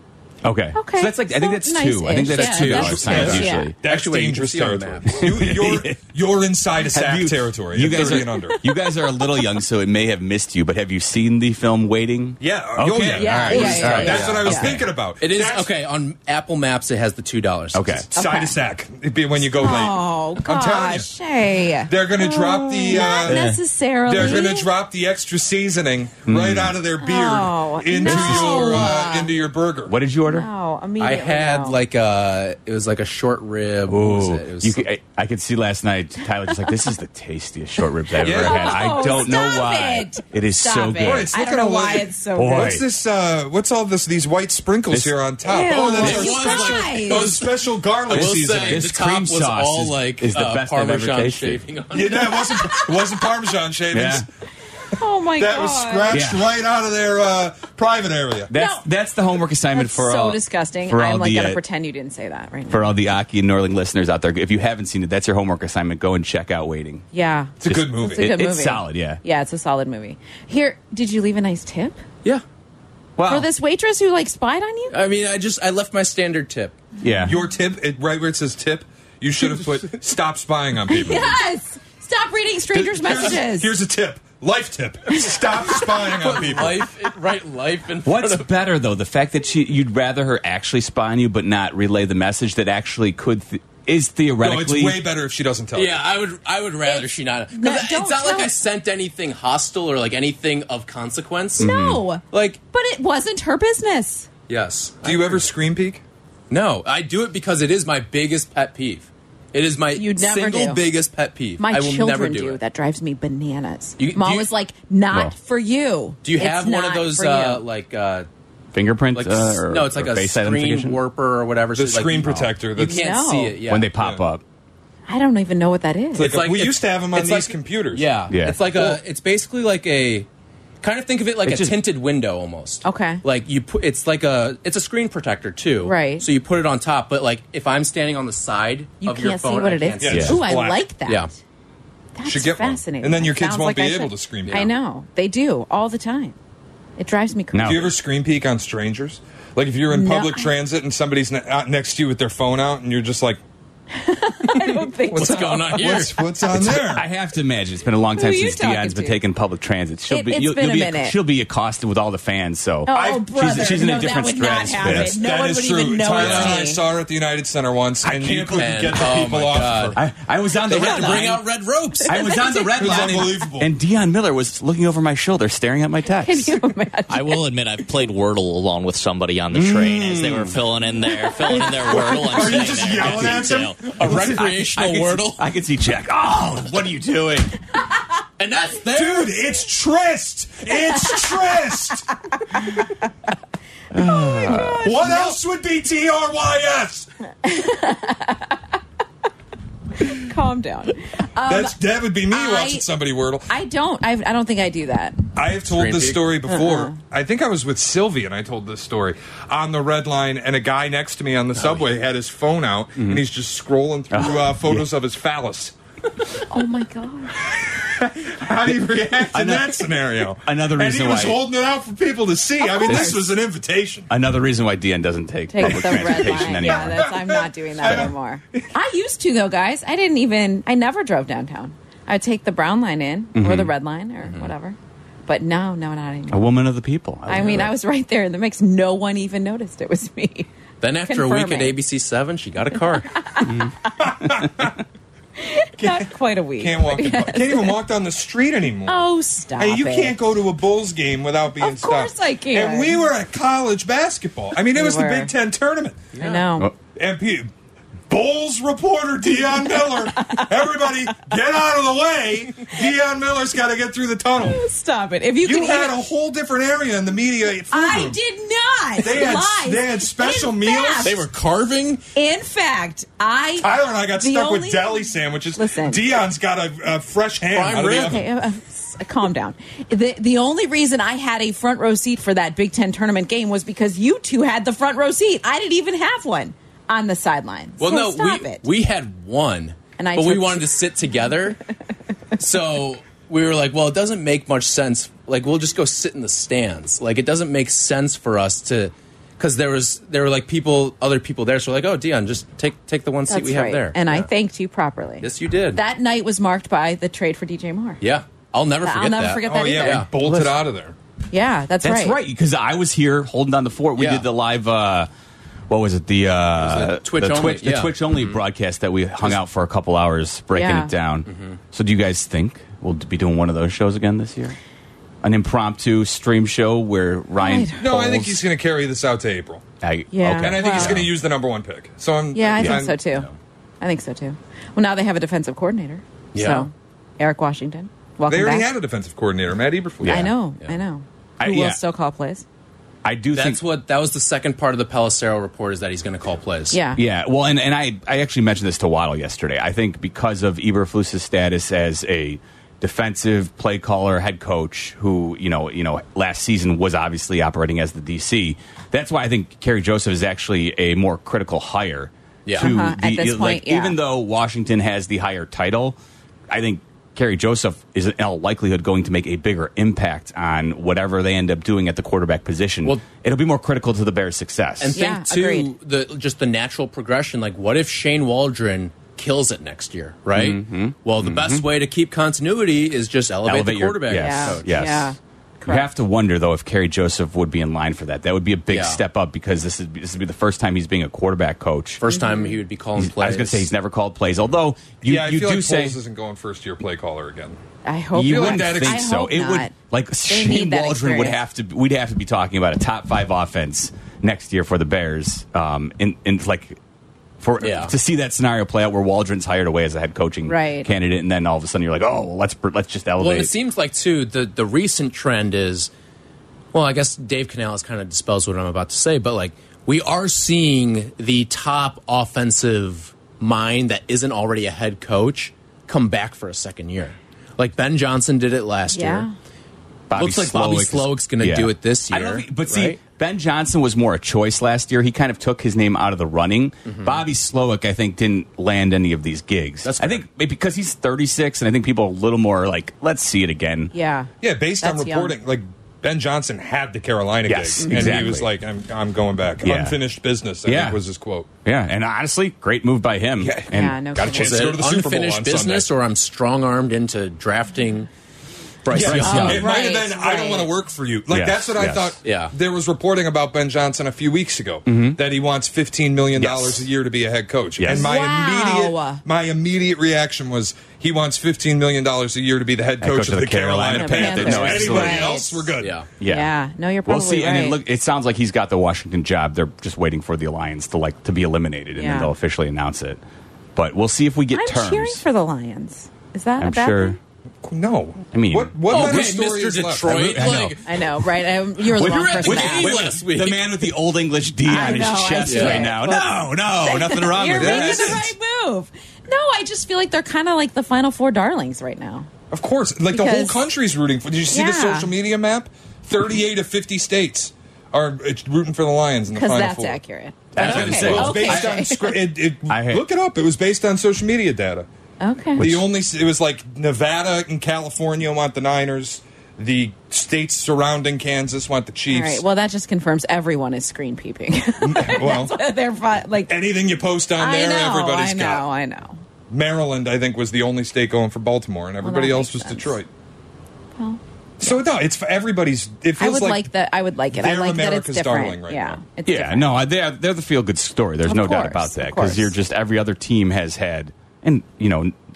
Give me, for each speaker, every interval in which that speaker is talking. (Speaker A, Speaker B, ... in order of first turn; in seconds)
Speaker A: 0.4-3.7, 5.1-6.0, 6.9-14.9, 17.7-18.1, 23.0-23.6, 26.3-26.8, 28.0-29.0, 29.9-30.5, 33.9-41.3, 42.4-42.8, 44.9-45.2, 45.7-46.3, 48.1-51.6, 53.9-54.2, 56.1-56.5, 58.5-61.6, 62.7-67.0, 67.6-69.2, 73.2-73.5, 77.0-77.4, 88.0-95.0, 101.6-102.0, 118.7-121.0, 122.2-122.5, 123.7-124.4, 128.3-128.7, 131.4-131.8, 140.1-140.4, 147.5-147.9, 156.5-165.1, 166.2-166.6, 168.0-169.0, 169.9-171.4, 172.0-176.6, 179.5-180.6, 181.8-187.5, 193.9-195.1, 214.1-214.9, 218.6-221.4, 222.8-223.1, 224.1-227.1, 227.8-228.1, 233.3-233.7, 236.3-237.7, 243.5-243.7, 311.8-315.1, 315.7-324.6, 325.2-328.5, 329.8-331.1, 332.6-333.3, 340.0-340.3, 341.4-341.8, 343.0-343.6, 346.9-366.0, 366.5-375.0, 380.3-381.7, 383.4-385.1, 385.6-392.0, 393.0-396.0, 398.1-406.8, 407.4-413.5, 430.1-443.9, 447.4-448.5, 449.6-450.0, 450.6-451.0, 451.6-454.0, 458.9-459.7, 461.3-462.1, 464.9-465.2, 466.3-466.9, 467.8-468.1, 473.0-475.4, 476.2-476.5, 477.1-483.2, 483.7-485.2, 486.6-487.2, 488.3-489.3, 490.0-490.8, 491.9-498.2, 510.5-512.0, 512.7-513.0, 515.6-515.8, 539.2-545.1
Speaker B: 0.7-3.7, 8.0-9.4, 13.2-14.7, 18.1-18.6, 19.6-24.7, 27.0-29.3, 30.2-31.8, 38.1-42.8, 45.5-47.4, 52.2-53.1, 55.0-56.2, 58.5-58.8, 59.7-62.9, 67.1-72.0, 73.3-75.0, 80.9-83.7, 85.1-86.1, 96.8-98.5, 101.6-104.3, 109.9-110.8, 111.6-117.6, 122.8-123.6, 125.1-126.3, 132.8-133.2, 135.8-136.2, 139.0-141.3, 142.1-146.3, 147.0-147.9, 149.9-150.5, 153.9-156.4, 158.2-159.2, 160.1-161.2, 162.9-166.8, 172.1-173.4, 176.2-177.4, 193.9-195.4, 197.4-198.6, 200.0-201.8, 202.3-202.8, 203.5-205.2, 206.5-206.9, 216.5-217.4, 222.6-223.3, 225.5-234.8, 235.3-236.5, 237.3-240.5, 241.1-241.7, 243.1-243.9, 245.4-247.8, 248.9-250.2, 251.6-253.1, 254.7-255.3, 256.1-256.7, 259.5-260.5, 264.4-265.9, 267.7-271.2, 272.1-276.0, 277.9-288.6, 290.0-290.7, 303.3-308.0, 308.8-310.1, 311.3-312.2, 320.5-320.9, 327.4-327.8, 330.1-331.0, 332.3-333.3, 333.8-338.7, 340.0-342.4, 346.7-347.0, 362.6-364.0, 374.9-375.7, 384.1-385.9, 392.1-392.6, 397.8-399.7, 400.3-401.4, 410.4-410.9, 428.9-429.3, 443.9-445.3, 447.8-448.2, 453.7-454.6, 459.2-460.7, 467.9-469.2, 473.9-477.8, 481.9-482.3, 484.5-487.2, 490.8-493.0, 494.6-502.3, 503.1-503.6, 504.5-505.1, 509.3-512.2, 515.2-515.7, 522.1-526.5, 527.4-529.2, 532.0-533.0, 534.0-534.8, 536.2-539.8, 541.2-542.5
Speaker C: 2.2-5.2, 13.5-14.4, 15.2-18.0, 31.0-34.9, 45.8-52.4, 74.9-76.8, 86.0-88.5, 95.7-101.7, 102.3-102.6, 104.5-105.5, 106.5-112.6, 114.0-114.5, 116.2-118.3, 119.1-123.9, 126.2-130.3, 130.8-140.4, 155.1-156.1, 168.6-170.0, 170.7-172.4, 183.8-185.4, 188.4-189.4, 205.7-206.3, 211.6-211.9, 234.2-234.5, 237.3-237.7, 240.8-243.2, 256.1-256.4, 271.0-272.0, 277.5-278.2, 287.8-291.6, 292.4-304.3, 305.2-305.8, 308.0-310.6, 314.0-314.3, 316.6-318.4, 321.3-321.6, 336.3-336.7, 343.3-346.8, 362.4-362.7, 374.8-384.7, 388.7-389.0, 392.0-393.7, 407.6-407.9, 413.2-415.9, 416.7-429.3, 430.1-433.0, 436.9-437.2, 439.8-440.2, 454.3-458.1, 458.8-459.8, 462.2-462.5, 475.8-476.1, 488.9-490.9, 491.9-493.9, 495.4-495.9, 510.9-511.3
Speaker D: 3.0-8.6, 12.4-15.7, 18.0-21.1, 21.9-23.6, 24.1-30.0, 38.2-39.1, 41.0-48.9, 51.9-54.2, 55.4-58.5, 67.6-68.4, 77.2-81.4, 82.7-86.9, 94.4-96.0, 105.0-106.0, 121.8-123.1, 124.0-124.2, 126.1-128.1, 128.7-129.0, 140.0-140.8, 142.2-144.7, 147.6-153.4, 155.1-157.1, 162.9-163.7, 164.7-170.0, 172.7-173.7, 181.7-184.3, 188.9-192.1, 194.8-197.1, 201.4-203.5, 205.3-215.7, 217.4-224.1, 225.6-228.7, 244.0-244.8, 245.8-256.1, 256.9-257.5, 258.1-264.6, 265.4-268.2, 269.0-271.2, 273.6-278.2, 309.4-310.9, 327.8-329.6, 330.3-333.0, 338.3-340.3, 395.0-397.6, 398.2-399.1, 444.4-451.5, 453.4-455.9, 458.9-476.0, 487.6-490.6, 497.5-498.3, 502.5-510.0, 510.6-514.9, 515.6-522.4, 524.8-525.6, 526.5-528.6, 529.5-533.1, 534.6-536.7, 537.3-539.0
Speaker E: 177.1-183.9